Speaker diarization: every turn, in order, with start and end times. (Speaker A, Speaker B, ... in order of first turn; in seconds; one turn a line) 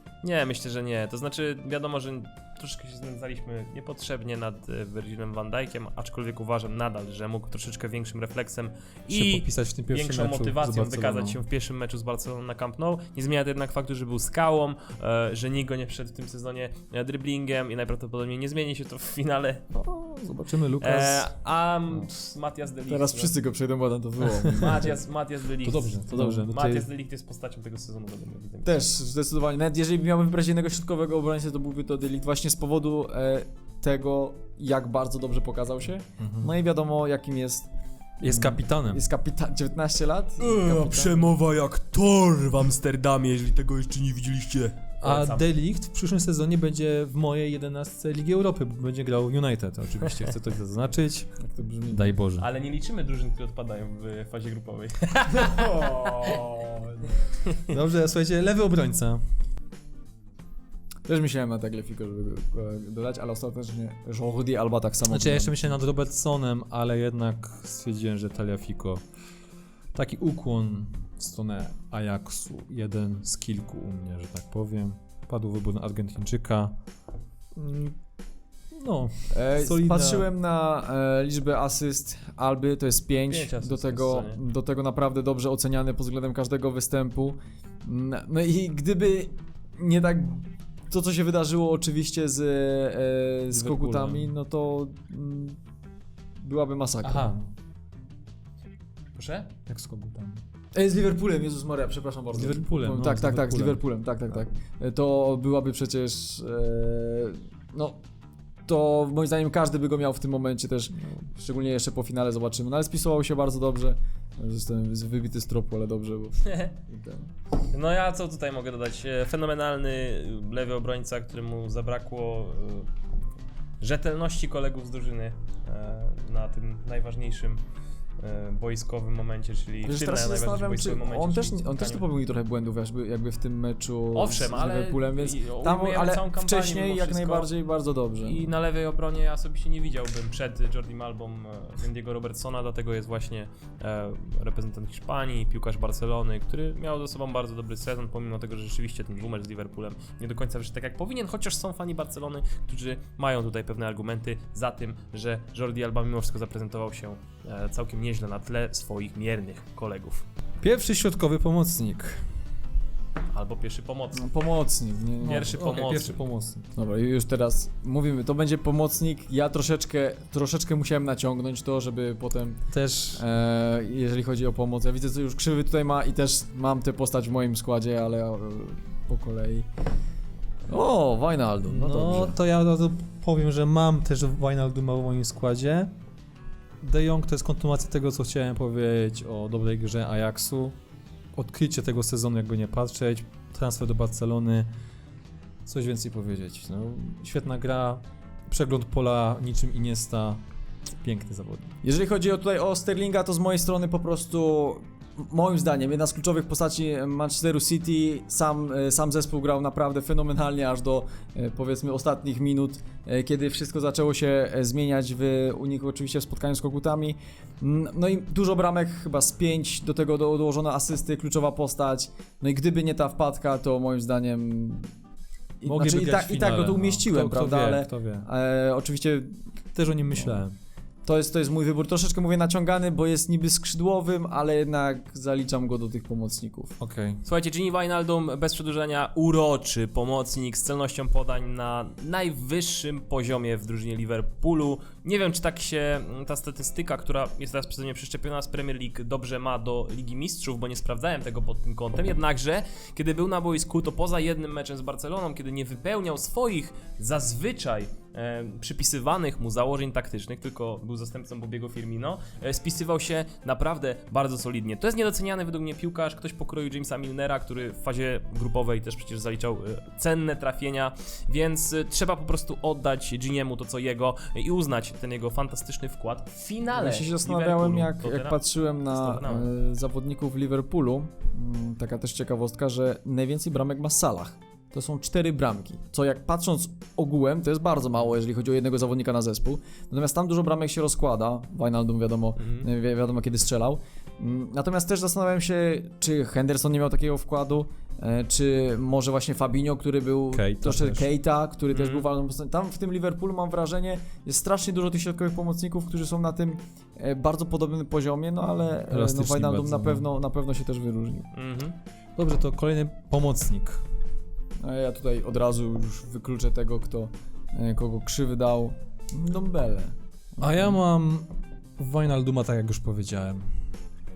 Speaker A: 0.2-19.6
Speaker B: 9.1-11.4
Speaker B: 19.7-21.3
Speaker A: 20.8-23.3
Speaker C: 22.9-24.9
Speaker A: 24.5-28.8
Speaker B: 25.6-26.9
Speaker C: 28.6-37.7
Speaker B: 36.2-36.5
Speaker B: 38.2-39.0
Speaker C: 38.3-41.3
Speaker A: 40.4-45.5
Speaker B: 45.0-51.4
Speaker C: 51.4-52.1
Speaker B: 51.9-52.4
Speaker A: 52.4-56.4
Speaker C: 55.3-57.2
Speaker B: 57.7-59.2
Speaker C: 61.0-65.8
Speaker B: 65.1-69.0
Speaker B: 69.9-76.7
Speaker B: 77.5-77.9
Speaker B: 78.8-80.3
Speaker C: 79.3-95.5
Speaker A: 83.3-84.4
Speaker B: 93.5-94.3
Speaker C: 96.4-97.3
Speaker B: 97.0-97.5
Speaker A: 99.1-99.5
Speaker B: 99.7-100.4
Speaker C: 100.7-108.0
Speaker B: 102.3-103.8
Speaker C: 108.7-117.3
Speaker A: 116.5-116.7
Speaker A: 117.7-122.9
Speaker A: 123.8-127.6
Speaker A: 128.2-132.0
Speaker C: 129.8-138.4
Speaker A: 134.1-137.5
Speaker A: 138.2-160.2
Speaker B: 160.6-162.2
Speaker A: 163.3-164.3
Speaker C: 164.2-165.4
Speaker A: 165.2-166.2
Speaker B: 165.2-166.7
Speaker C: 166.7-172.6
Speaker B: 172.7-173.2
Speaker C: 173.2-179.7
Speaker C: 180.7-182.4
Speaker B: 181.6-185.9
Speaker B: 186.8-190.8
Speaker B: 191.3-194.7
Speaker B: 195.7-200.4
Speaker B: 200.9-201.8
Speaker C: 201.8-224.9
Speaker C: 225.6-229.4
Speaker B: 225.6-228.2
Speaker B: 229.7-230.5
Speaker C: 231.0-236.7
Speaker B: 236.8-237.2
Speaker A: 237.2-279.5
Speaker C: 276.7-311.3
Speaker A: 292.4-292.7
Speaker B: 300.3-301.1
Speaker A: 301.7-302.1
Speaker B: 308.9-310.1
Speaker A: 311.3-311.8
Speaker B: 312.2-313.8
Speaker C: 314.6-320.7
Speaker B: 320.4-323.4